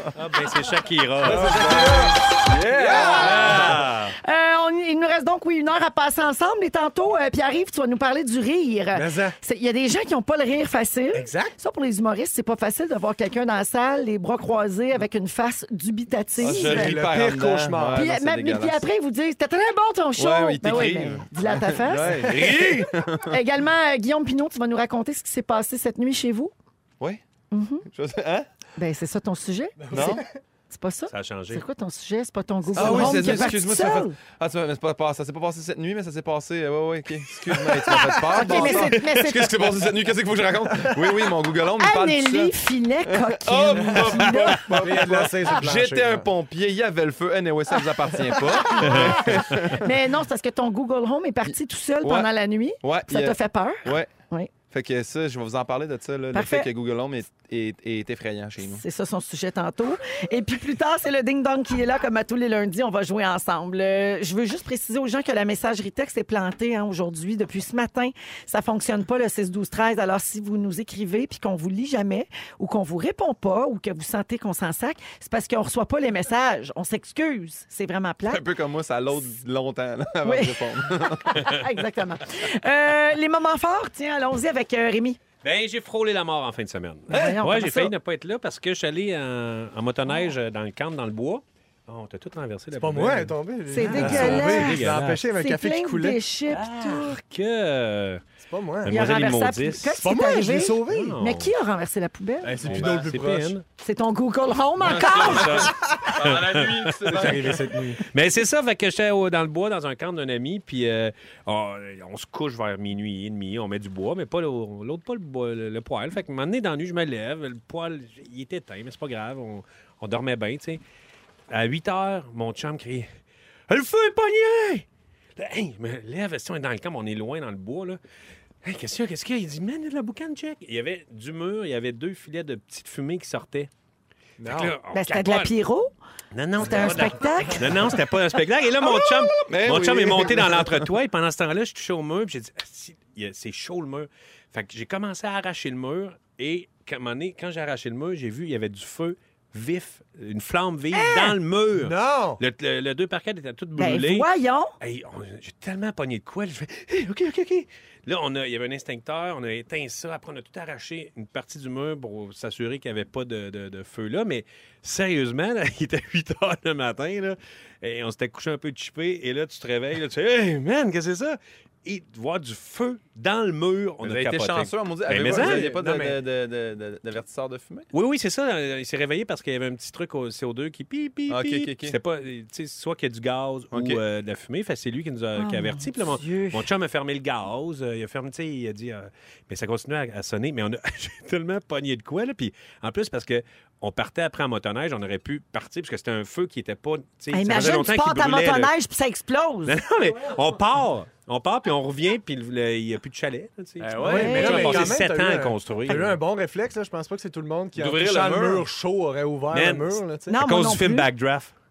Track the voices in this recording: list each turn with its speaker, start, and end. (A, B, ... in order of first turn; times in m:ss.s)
0:00.1-0:02.0 A
0:01.2-0:03.8 B
0:01.2-0:03.8 C
0:02.9-0:04.1 A
0:04.2-0:16.9 D
0:08.9-0:09.4 B
0:11.1-0:11.6 B
0:16.4-0:18.8 C
0:16.4-0:18.0 B
0:17.9-0:22.5 D
0:20.2-0:23.3 C
0:21.8-0:22.6 B
0:22.4-0:22.7 A
0:23.2-0:26.5 D
0:27.5-0:27.9 D
0:27.9-0:28.5 C
0:28.8-0:30.1 D
0:29.8-0:30.2 B
0:29.9-0:30.2 C
0:30.7-0:34.2 D
0:31.1-0:31.6 A
0:32.7-0:42.5 C
0:32.8-0:33.4 B
0:37.5-0:38.9 B
0:38.3-0:39.6 D
0:40.7-0:41.2 B
0:41.8-0:44.8 D
0:43.1-0:49.9 C
0:43.7-0:46.3 B
0:48.4-0:49.1 B
0:48.8-0:49.5 A
0:49.6-0:54.5 D
0:52.0-0:52.3 C
0:52.8-0:54.1 C
0:54.7-0:58.8 C
0:56.3-0:56.7 D
0:58.6-1:18.4 D
1:18.3-1:21.4 C
1:20.2-1:25.2 D
1:25.4-1:35.2 A
1:27.1-1:27.9 D
1:32.8-1:36.2 B
1:33.7-1:37.2 D
1:36.5-1:38.2 A
1:38.4-1:39.1 B
1:38.8-1:40.0 A
1:38.9-1:42.7 D
1:40.0-1:41.2 B
1:40.9-1:41.5 A
1:42.4-1:43.6 B
1:42.6-1:43.6 A
1:42.7-1:43.0 C
1:43.8-1:45.7 D
1:44.8-1:47.6 C
1:44.9-1:47.4 A
1:47.0-1:48.0 B
1:48.1-2:00.8 A
2:01.5-2:03.1 A
2:03.7-2:08.0 A
2:08.6-2:13.7 A
2:14.4-2:14.7 B
2:14.4-2:15.5 A
2:14.9-2:15.9 D
2:16.3-2:34.3 A
2:16.6-2:18.0 D
2:19.4-2:20.9 C
2:31.0-2:31.3 D
2:31.7-2:32.4 B
2:33.8-2:34.7 D
2:34.8-2:55.7 A
2:54.0-2:57.9 C
2:55.1-2:56.2 B
2:57.9-3:18.7 A
3:01.3-3:02.0 C
3:03.7-3:04.0 C
3:05.4-3:06.7 D
3:17.3-3:19.8 D
3:19.6-3:26.2 A
3:23.8-3:24.9 C
3:24.0-3:30.4 B
3:24.0-3:24.8 D
3:27.8-3:28.6 C
3:29.5-3:31.5 A
3:30.3-3:31.1 D